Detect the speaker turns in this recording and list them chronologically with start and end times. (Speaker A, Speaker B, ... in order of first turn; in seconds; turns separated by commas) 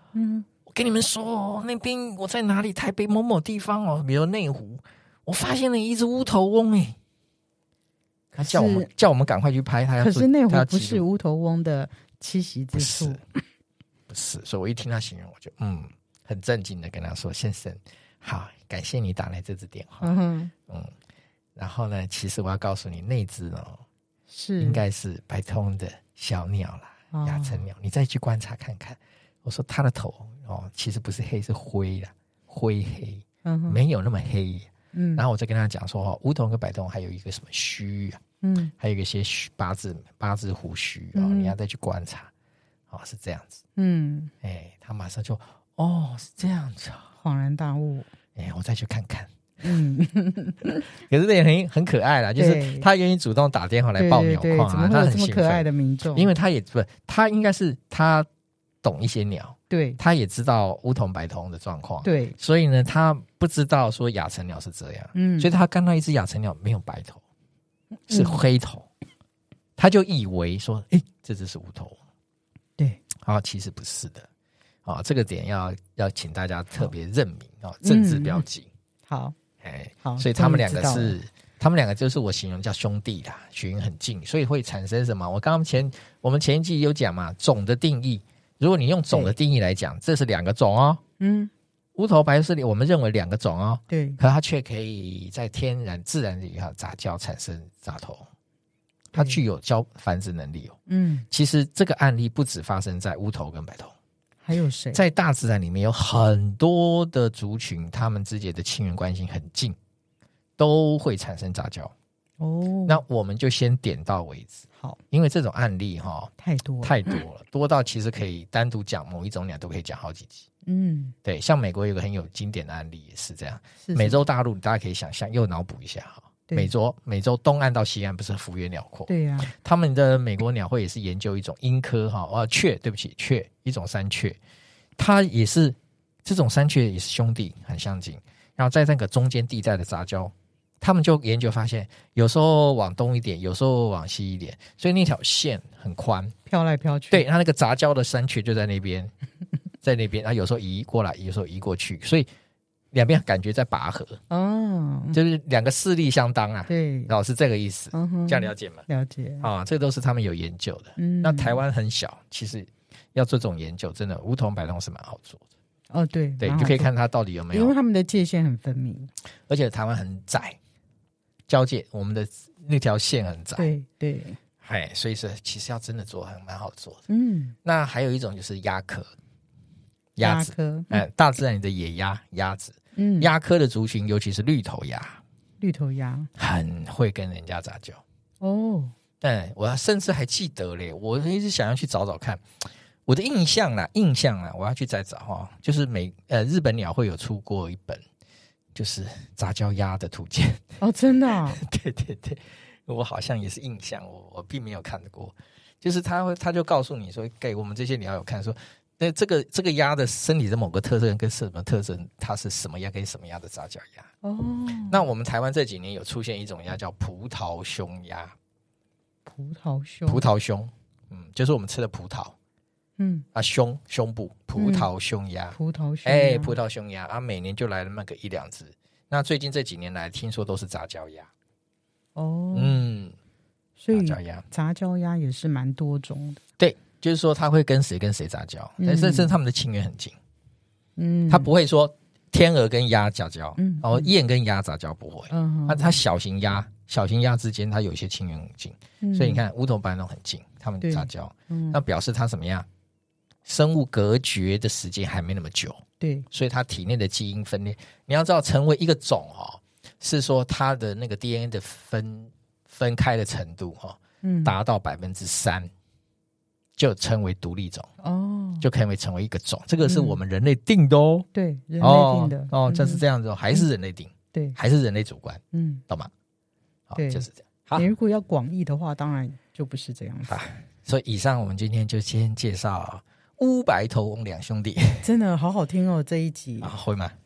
Speaker A: 0.1-0.5, Speaker B: 0.7-7.0, Speaker B: 8.3-11.0, Speaker A: 8.4-8.9, Speaker A: 10.0-13.4, Speaker B: 12.7-13.2, Speaker B: 14.1-20.1, Speaker A: 20.0-20.5, Speaker B: 20.7-20.9, Speaker B: 21.6-23.8, Speaker A: 24.3-24.8, Speaker B: 24.6-38.2, Speaker A: 27.1-27.6, Speaker A: 33.4-33.8, Speaker A: 34.9-35.2, Speaker A: 38.4-38.7, Speaker B: 38.8-42.3, Speaker A: 41.1-41.5, Speaker B: 42.9-43.6, Speaker A: 43.8-44.3, Speaker B: 44.4-47.1, Speaker A: 47.2-48.1, Speaker B: 48.4-49.3, Speaker A: 49.6-50.8, Speaker B: 51.0-58.3, Speaker A: 52.4-52.9, Speaker A: 54.0-56.3, Speaker B: 58.8-67.2, Speaker A: 59.7-60.0, Speaker A: 62.0-62.4, Speaker A: 65.1-65.5, Speaker A: 68.1-68.4, Speaker B: 68.1-68.9, Speaker B: 69.8-72.0, Speaker B: 73.2-74.3, Speaker B: 74.8-78.7, Speaker A: 77.8-78.4, Speaker A: 79.1-79.3, Speaker B: 79.6-91.0, Speaker A: 80.0-81.2, Speaker A: 91.2-91.5, Speaker B: 92.0-98.2, Speaker A: 93.9-94.2, Speaker B: 99.1-100.8, Speaker A: 99.1-99.4, Speaker A: 100.9-101.3, Speaker B: 101.3-103.9, Speaker A: 104.4-105.0, Speaker B: 104.9-109.8, Speaker B: 110.6-111.9, Speaker A: 112.4-113.0, Speaker B: 112.8-120.4, Speaker A: 116.4-117.2, Speaker A: 120.6-121.1, Speaker B: 121.2-134.4, Speaker A: 123.8-124.2, Speaker A: 129.1-129.5, Speaker B: 135.0-146.3, Speaker A: 146.5-147.2, Speaker B: 147.1-149.1, Speaker B: 149.8-152.3, Speaker B: 152.9-154.2, Speaker A: 154.3-155.2, Speaker B: 155.1-158.8, Speaker A: 156.7-157.1, Speaker A: 157.9-159.5, Speaker B: 159.4-165.4, Speaker A: 161.0-161.6, Speaker A: 165.9-166.9, Speaker B: 166.4-167.7, Speaker A: 167.5-169.1, Speaker B: 169.5-170.6, Speaker B: 171.5-173.7, Speaker A: 173.6-174.4, Speaker B: 174.6-177.0, Speaker A: 177.1-177.6, Speaker B: 177.6-179.1, Speaker B: 180.2-185.2, Speaker A: 180.2-181.0, Speaker A: 182.9-183.3, Speaker A: 185.6-186.3, Speaker B: 186.4-188.0, Speaker A: 188.4-188.9, Speaker B: 189.2-192.4, Speaker B: 193.1-198.0, Speaker B: 198.7-200.6, Speaker A: 200.8-201.6, Speaker B: 201.5-214.1, Speaker A: 214.2-215.0, Speaker B: 214.9-218.3, Speaker A: 219.2-220.2, Speaker B: 220.1-222.3, Speaker A: 223.0-223.2, Speaker B: 223.3-231.3, Speaker A: 224.6-224.9, Speaker A: 225.5-226.6, Speaker A: 232.2-232.8, Speaker B: 232.5-233.1, Speaker A: 233.8-236.4, Speaker B: 233.9-234.4, Speaker B: 236.6-240.2, Speaker A: 238.8-239.3, Speaker A: 241.0-241.5, Speaker B: 241.3-252.7, Speaker A: 243.6-244.1, Speaker A: 245.3-246.0, Speaker A: 249.0-249.4, Speaker A: 250.8-251.8, Speaker B: 253.4-265.7, Speaker A: 256.0-256.3, Speaker A: 264.2-264.5, Speaker B: 266.8-267.9, Speaker A: 268.0-268.6, Speaker B: 268.6-271.2, Speaker A: 269.8-270.2, Speaker A: 271.3-273.7, Speaker B: 271.8-276.1, Speaker A: 275.5-275.8, Speaker B: 276.9-277.9, Speaker A: 276.9-277.2, Speaker A: 277.8-280.3, Speaker B: 280.3-285.0, Speaker A: 285.0-286.7, Speaker B: 286.6-287.1